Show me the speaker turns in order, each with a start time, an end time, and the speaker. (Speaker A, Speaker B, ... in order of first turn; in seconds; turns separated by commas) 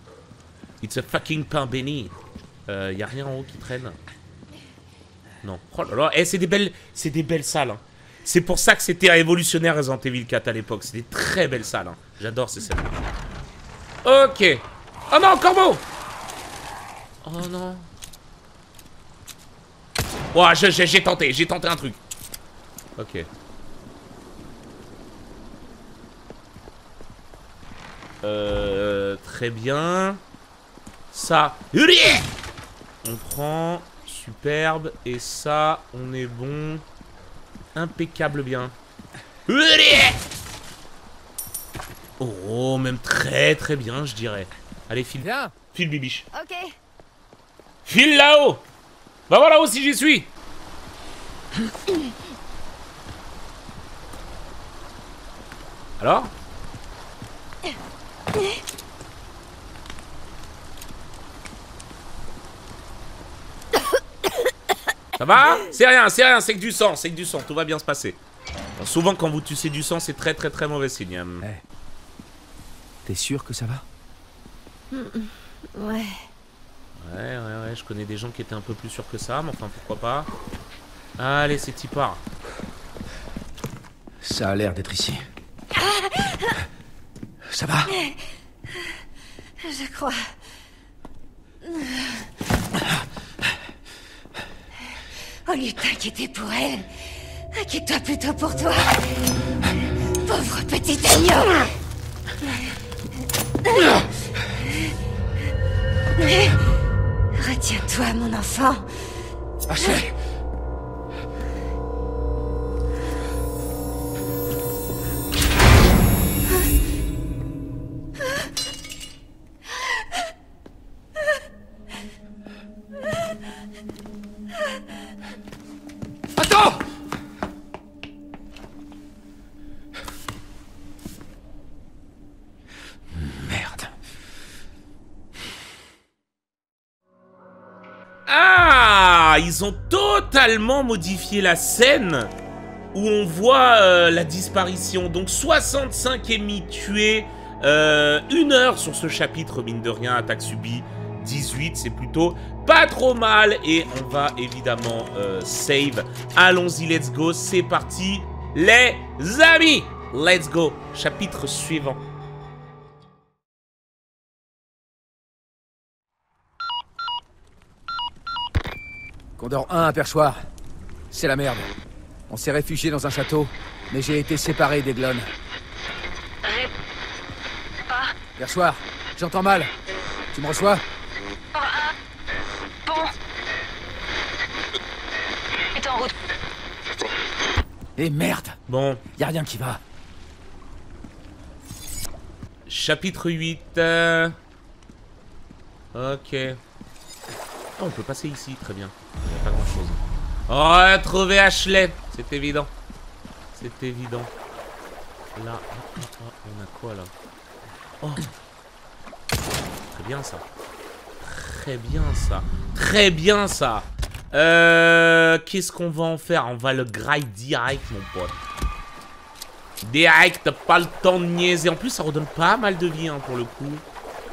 Speaker A: 0.8-2.1, Speaker A: 2.7-4.0, Speaker A: 5.4-13.0, Speaker A: 14.0-15.8, Speaker A: 17.2-17.9, Speaker A: 20.3-22.0, Speaker A: 23.0-23.3, Speaker A: 28.2-30.2, Speaker A: 31.1-32.3, Speaker A: 33.0-36.8, Speaker A: 37.7-38.7, Speaker A: 39.5-40.2, Speaker A: 42.2-46.2, Speaker B: 45.2-45.5, Speaker C: 46.3-46.7, Speaker A: 47.9-48.6, Speaker A: 49.3-50.3, Speaker A: 56.0-56.3, Speaker A: 65.2-68.2, Speaker A: 68.8-71.5, Speaker B: 73.0-73.8, Speaker C: 74.9-76.2, Speaker A: 77.0-80.3, Speaker A: 81.2-82.2, Speaker B: 84.2-85.2, Speaker C: 85.7-86.6, Speaker B: 87.4-87.9, Speaker C: 87.9-89.0, Speaker C: 89.6-90.3, Speaker C: 91.6-92.3, Speaker C: 95.4-99.0, Speaker C: 100.2-101.7, Speaker C: 102.4-102.8, Speaker C: 103.7-104.0, Speaker C: 104.6-104.9, Speaker C: 106.2-106.6, Speaker C: 107.3-109.1, Speaker B: 109.7-110.1, Speaker B: 126.3-126.8, Speaker B: 133.1-133.9, Speaker A: 138.3-142.3, Speaker A: 142.9-162.0, Speaker B: 169.4-170.4, Speaker B: 171.1-171.7, Speaker B: 172.3-175.3, Speaker B: 178.3-179.7, Speaker B: 180.3-180.8, Speaker C: 181.6-181.9, Speaker C: 185.8-186.1, Speaker B: 188.0-188.6, Speaker A: 188.7-189.0, Speaker B: 189.2-189.8, Speaker A: 192.7-194.4, Speaker A: 195.9-196.6, Speaker A: 197.8-202.7, Speaker A: 203.5-204.3, Speaker A: 205.3-207.1, Speaker A: 208.0-208.3, Speaker A: 209.9-210.4, Speaker A: 211.2-218.4, Speaker A: 219.8-223.8